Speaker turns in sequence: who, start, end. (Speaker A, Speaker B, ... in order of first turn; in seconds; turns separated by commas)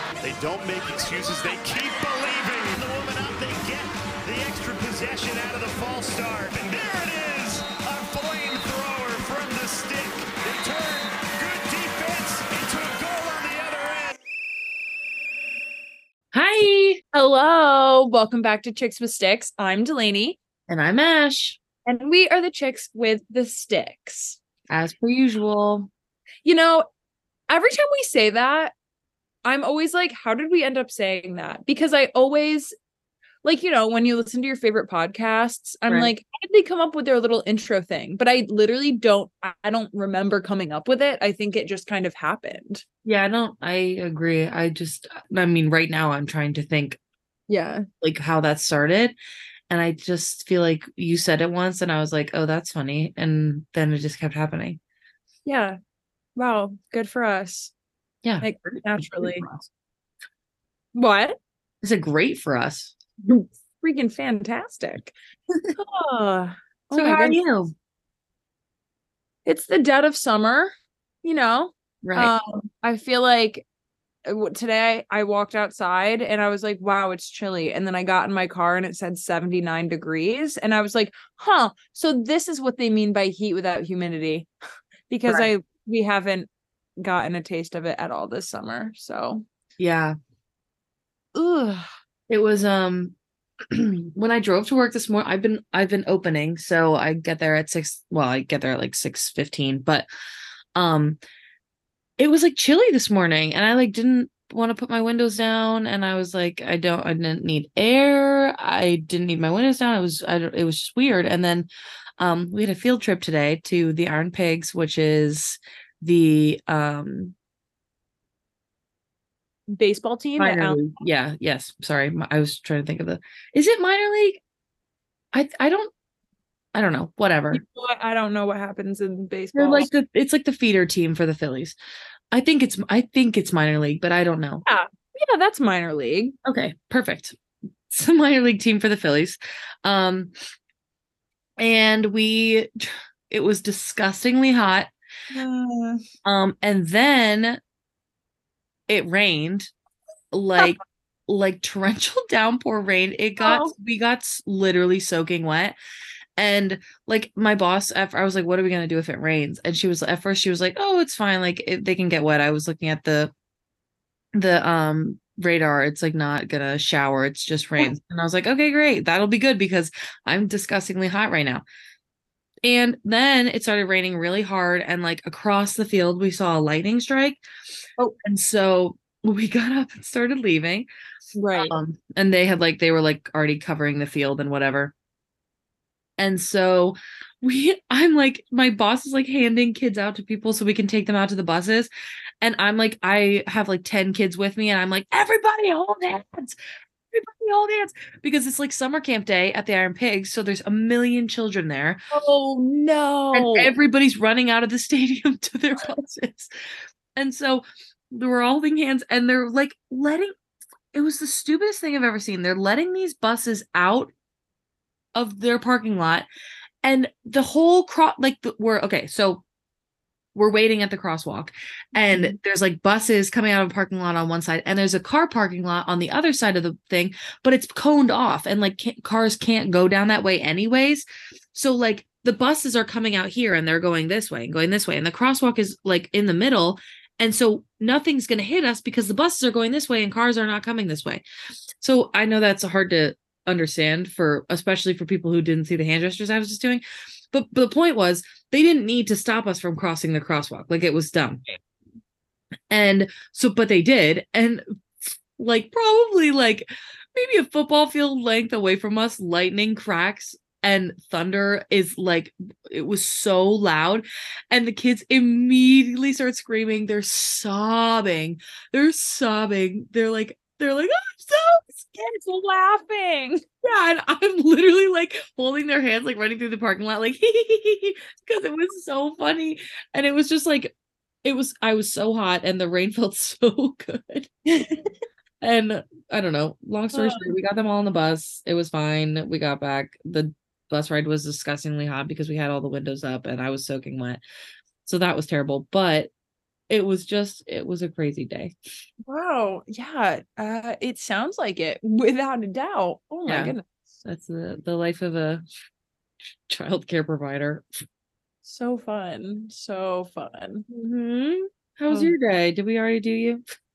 Speaker A: 0.2-14.1, Speaker B: 16.3-17.0, Speaker C: 17.1-20.4, Speaker B: 20.7-21.6, Speaker C: 21.9-24.4, Speaker B: 24.7-25.9, Speaker C: 26.4-26.9, Speaker C: 27.5-28.7, Speaker C: 29.4-32.7, Speaker C: 33.4-42.8, Speaker B: 35.9-36.1, Speaker B: 43.0-47.0, Speaker C: 47.5-47.9, Speaker B: 48.0-49.1, Speaker B: 49.7-54.8, Speaker C: 55.5-55.8, Speaker C: 56.4-57.7, Speaker B: 58.2-59.7, Speaker C: 58.4-59.5, Speaker C: 60.9-61.4, Speaker B: 61.8-62.9, Speaker C: 63.2-65.1, Speaker C: 65.8-67.4, Speaker B: 66.9-67.7, Speaker C: 69.4-73.6, Speaker B: 72.0-72.3, Speaker C: 74.2-84.5, Speaker C: 85.1-86.5, Speaker C: 87.0-89.4, Speaker B: 89.8-90.2, Speaker C: 91.3-91.9, Speaker B: 92.3-93.1, Speaker B: 93.7-100.0, Speaker B: 100.7-101.2, Speaker B: 102.2-117.3, Speaker C: 119.7-120.9, Speaker B: 120.4-124.4, Speaker B: 125.3-125.9, Speaker B: 126.7-127.6, Speaker C: 127.5-129.9, Speaker B: 129.5-131.8, Speaker B: 132.3-134.6, Speaker C: 134.6-136.3, Speaker B: 136.4-137.4, Speaker B: 137.9-140.3, Speaker B: 141.6-144.9, Speaker C: 145.3-146.0, Speaker B: 146.2-147.6, Speaker B: 148.9-149.7, Speaker B: 150.3-155.8, Speaker C: 153.4-153.7, Speaker B: 156.4-163.3, Speaker B: 164.3-171.6, Speaker B: 172.6-177.4, Speaker B: 178.2-180.9, Speaker C: 181.3-181.7, Speaker B: 181.6-184.9, Speaker B: 186.2-191.9, Speaker B: 192.4-196.6, Speaker B: 197.1-202.0, Speaker C: 202.1-203.7, Speaker B: 203.3-206.5, Speaker B: 207.2-210.3, Speaker B: 210.9-214.1, Speaker B: 215.1-216.2, Speaker B: 216.8-219.4, Speaker B: 220.3-241.2, Speaker C: 222.1-222.3, Speaker B: 241.8-251.4, Speaker B: 252.7-272.0, Speaker C: 272.0-273.4, Speaker B: 273.6-284.3, Speaker C: 284.5-284.9, Speaker B: 285.4-294.2, Speaker C: 286.9-287.3, Speaker B: 294.8-296.1, Speaker B: 296.7-298.6, Speaker C: 299.1-303.6, Speaker B: 303.2-305.4, Speaker B: 306.5-307.6, Speaker C: 308.4-310.7, Speaker B: 310.7-313.4